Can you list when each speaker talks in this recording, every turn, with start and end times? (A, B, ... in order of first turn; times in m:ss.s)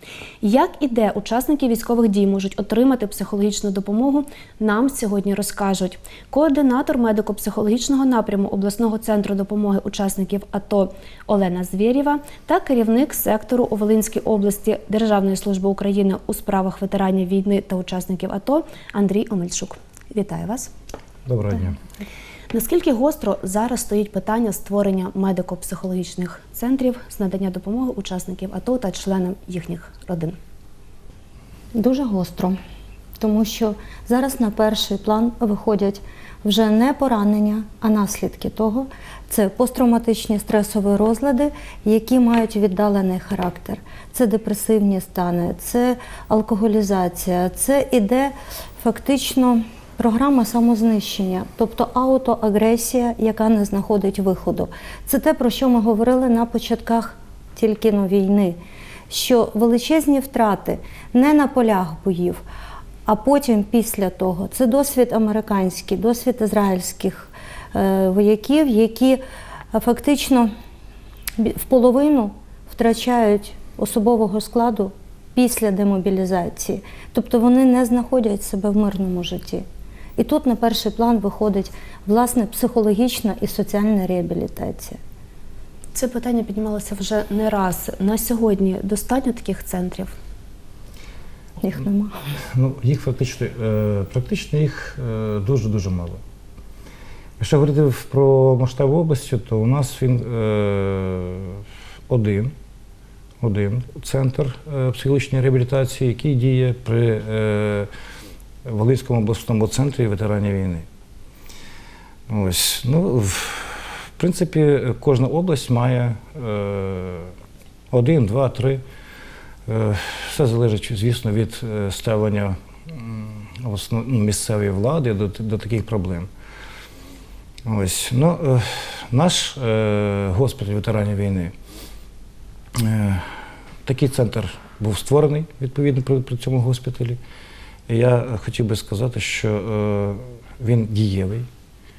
0:00.4-0:20.7 A
0:21.3-0:21.8 B
0:22.5-0:30.4 A
0:31.8-0:32.6 C
0:33.2-0:58.6 C
0:59.1-1:02.4 C
1:03.1-1:09.2 C
1:09.7-1:10.5 C
1:11.4-1:19.6 C
1:20.2-1:25.0 C
1:26.0-1:30.1 A
1:31.6-1:32.2 C
1:32.4-1:36.2 B
1:37.4-1:42.5 B
1:43.4-1:47.9 B
1:48.6-1:50.9 B
1:52.3-1:57.3 B
1:57.9-1:58.8 B
1:59.7-2:06.3 B
2:07.6-2:11.5 B
2:12.8-2:17.2 B
2:17.9-2:21.5 B